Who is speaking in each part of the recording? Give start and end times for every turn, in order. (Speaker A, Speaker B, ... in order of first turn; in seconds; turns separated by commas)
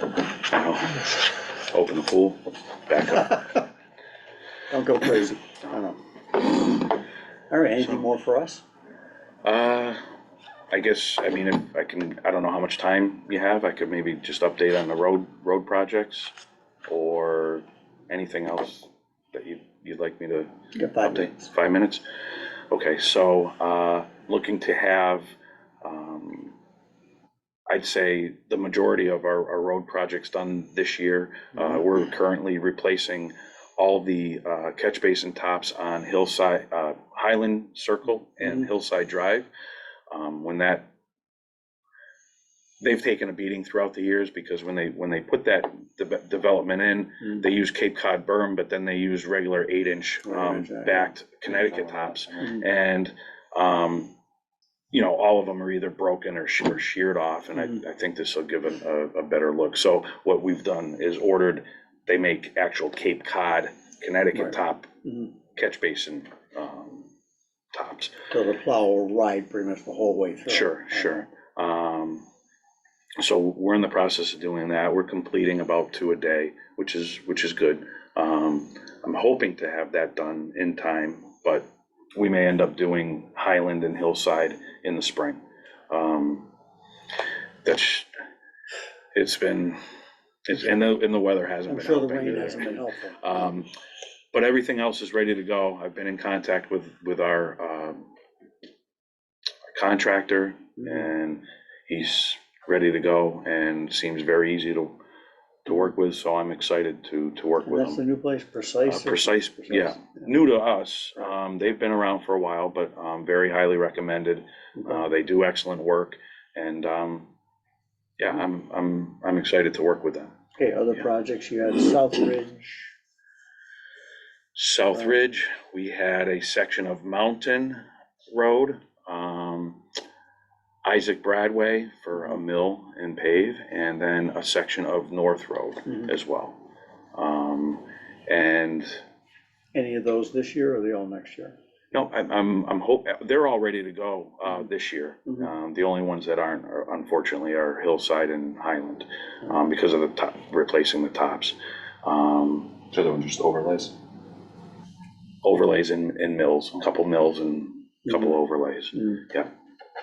Speaker A: 0.3-3.6, Speaker B: 4.7-6.0, Speaker B: 7.5-8.6, Speaker A: 7.8-8.1, Speaker A: 9.4-10.0, Speaker A: 10.7-16.3, Speaker A: 16.9-20.5, Speaker B: 20.8-21.4, Speaker A: 21.0-22.0, Speaker A: 22.7-25.3, Speaker A: 25.8-26.6, Speaker A: 27.7-39.5, Speaker A: 40.1-40.9, Speaker A: 42.8-54.1, Speaker B: 50.2-51.1, Speaker C: 51.5-52.4, Speaker A: 54.9-64.9, Speaker B: 64.3-65.3, Speaker A: 65.5-67.1, Speaker A: 67.7-68.1, Speaker B: 68.3-71.2, Speaker A: 70.5-72.2, Speaker A: 73.2-81.7, Speaker A: 82.2-86.5, Speaker A: 87.7-88.1, Speaker A: 89.1-89.8, Speaker A: 90.5-93.7, Speaker B: 91.7-93.2, Speaker A: 94.3-98.1, Speaker A: 99.7-105.0, Speaker A: 105.7-108.0, Speaker B: 107.7-110.3, Speaker A: 108.9-117.3, Speaker B: 114.8-115.0, Speaker A: 118.2-120.3, Speaker B: 120.6-122.9, Speaker A: 124.5-129.8, Speaker A: 130.8-136.6, Speaker A: 137.2-139.0, Speaker B: 139.8-141.6, Speaker A: 141.9-152.8, Speaker C: 152.9-153.9, Speaker A: 155.4-159.5